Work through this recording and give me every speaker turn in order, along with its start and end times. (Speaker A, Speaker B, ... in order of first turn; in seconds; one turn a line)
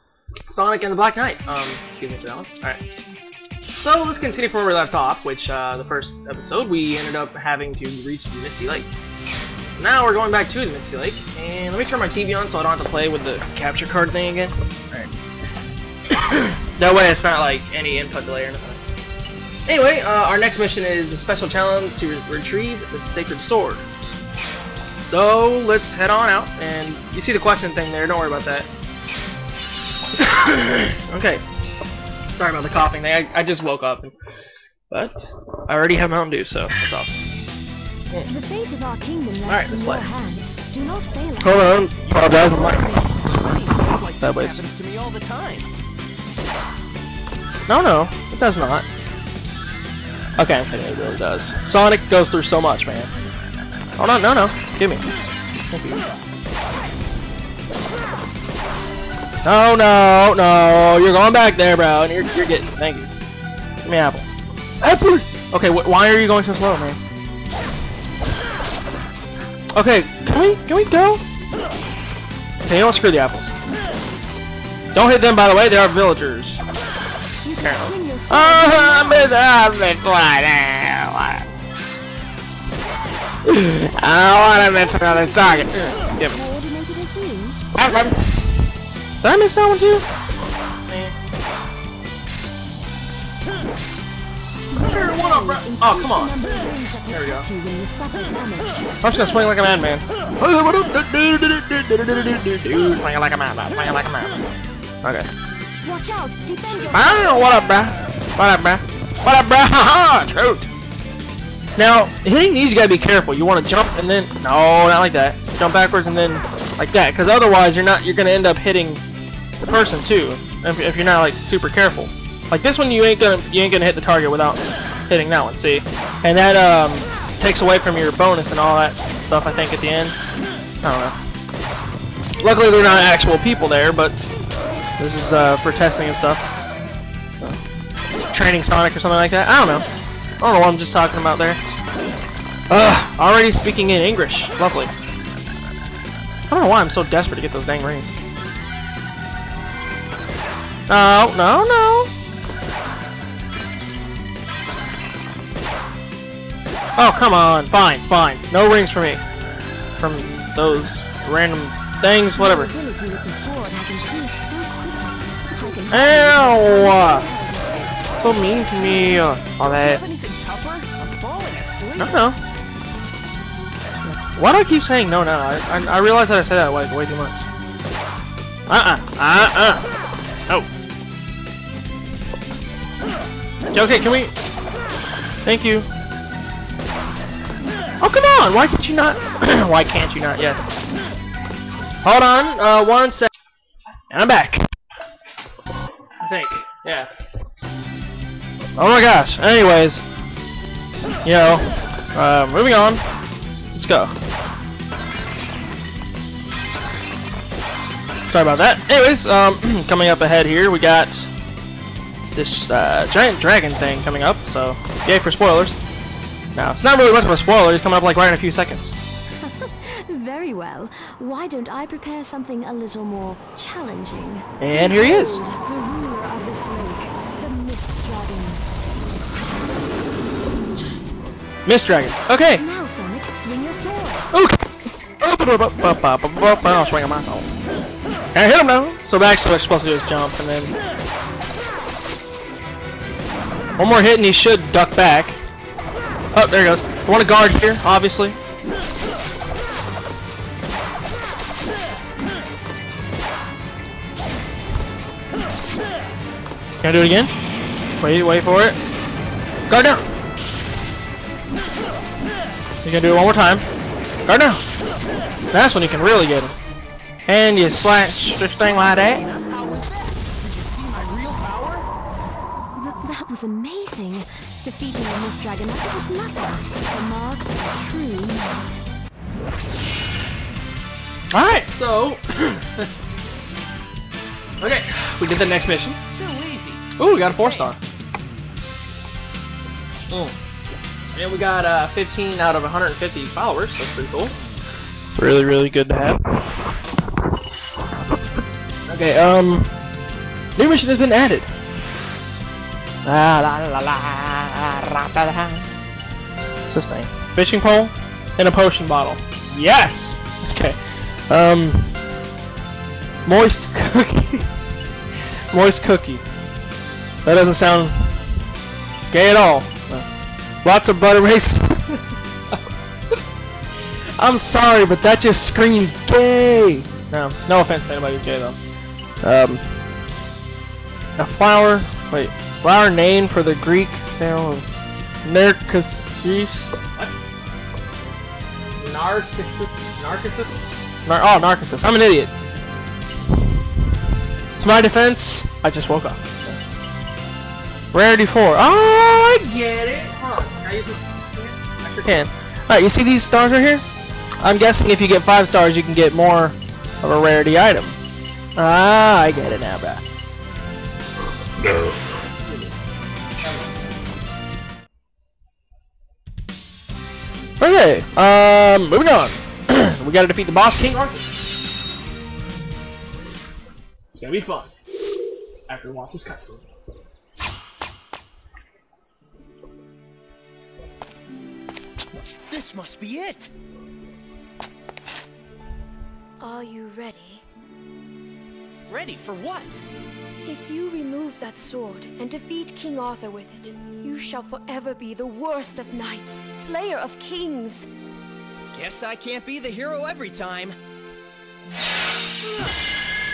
Speaker A: 0.5-2.8
Speaker A: 3.7-8.9
Speaker A: 9.8-15.2
Speaker A: 16.1-18.8
Speaker A: 19.7-23.8
Speaker A: 25.0-28.7
Speaker A: 30.2-31.4
Speaker A: 32.3-34.1
Speaker A: 34.9-37.2
Speaker B: 38.3-43.0
Speaker A: 39.5-40.1
Speaker A: 41.4-43.1
Speaker C: 43.4-45.7
Speaker A: 44.2-44.6
Speaker A: 47.7-48.9
Speaker A: 50.4-53.1
Speaker A: 54.0-55.0
Speaker A: 55.7-56.0
Speaker A: 59.4-63.1
Speaker A: 63.8-64.3
Speaker A: 64.8-67.0
Speaker A: 69.8-71.2
Speaker A: 72.6-73.5
Speaker A: 74.9-76.6
Speaker B: 77.4-79.5
Speaker A: 77.6-81.5
Speaker A: 83.5-86.4
Speaker B: 84.7-87.6
Speaker A: 87.7-88.2
Speaker A: 89.2-90.1
Speaker A: 90.9-91.1
Speaker B: 94.7-98.9
Speaker A: 94.7-96.3
Speaker A: 97.1-97.5
Speaker A: 99.0-104.4
Speaker A: 105.0-105.3
Speaker B: 105.8-107.9
Speaker A: 106.9-110.7
Speaker A: 111.8-119.0
Speaker A: 119.6-130.2
Speaker A: 130.8-131.2
Speaker A: 132.4-134.2
Speaker A: 135.0-136.4
Speaker A: 138.3-139.9
Speaker A: 140.4-141.6
Speaker A: 142.7-144.9
Speaker A: 146.5-148.1
Speaker A: 150.9-152.1
Speaker A: 157.0-159.2
Speaker A: 160.0-162.7
Speaker B: 162.3-168.2
Speaker A: 165.9-167.3
Speaker A: 168.2-170.0
Speaker C: 168.8-172.2
Speaker A: 172.0-172.4
Speaker A: 174.1-177.5
Speaker A: 178.7-179.8
Speaker A: 183.7-184.3
Speaker A: 185.4-185.9
Speaker A: 188.0-190.6
Speaker A: 192.0-193.3
Speaker A: 194.1-194.7
Speaker A: 196.2-197.1
Speaker A: 198.8-200.0
Speaker A: 201.2-203.0
Speaker A: 203.7-204.1
Speaker A: 208.3-211.3
Speaker A: 212.3-215.8
Speaker A: 216.6-218.9
Speaker B: 219.4-228.6
Speaker A: 224.6-225.4
Speaker A: 231.7-232.6
Speaker B: 232.6-234.3
Speaker A: 234.3-234.6
Speaker A: 235.2-237.5
Speaker A: 238.3-240.8
Speaker A: 243.8-245.4
Speaker A: 246.3-248.4
Speaker A: 256.8-257.3
Speaker A: 258.0-258.8
Speaker A: 259.7-260.1
Speaker A: 262.8-263.6
Speaker A: 264.3-264.6
Speaker A: 265.5-266.6
Speaker A: 267.3-269.2
Speaker C: 268.8-271.9
Speaker B: 272.8-278.8
Speaker A: 281.3-282.9
Speaker A: 284.6-286.0
Speaker C: 286.1-287.7
Speaker A: 287.0-287.8
Speaker A: 290.1-290.3
Speaker A: 291.1-294.3
Speaker A: 295.2-296.4
Speaker A: 298.9-299.7
Speaker A: 300.6-301.5
Speaker A: 303.1-305.7
Speaker A: 306.7-310.8
Speaker A: 311.3-311.9
Speaker A: 313.3-314.5
Speaker A: 315.5-316.2
Speaker A: 317.2-318.1
Speaker A: 319.1-320.1
Speaker A: 320.6-322.6
Speaker A: 324.2-328.6
Speaker A: 329.2-329.7
Speaker A: 331.2-334.7
Speaker A: 335.2-337.1
Speaker A: 338.8-342.3
Speaker A: 344.6-346.6
Speaker A: 347.9-353.9
Speaker A: 354.4-358.0
Speaker A: 358.6-360.1
Speaker A: 362.4-362.8
Speaker A: 363.4-363.7
Speaker A: 367.6-371.4
Speaker A: 374.1-374.7
Speaker A: 375.7-376.7
Speaker C: 382.5-383.5
Speaker B: 386.4-387.4
Speaker C: 388.9-389.8
Speaker B: 390.5-397.9
Speaker C: 398.7-400.8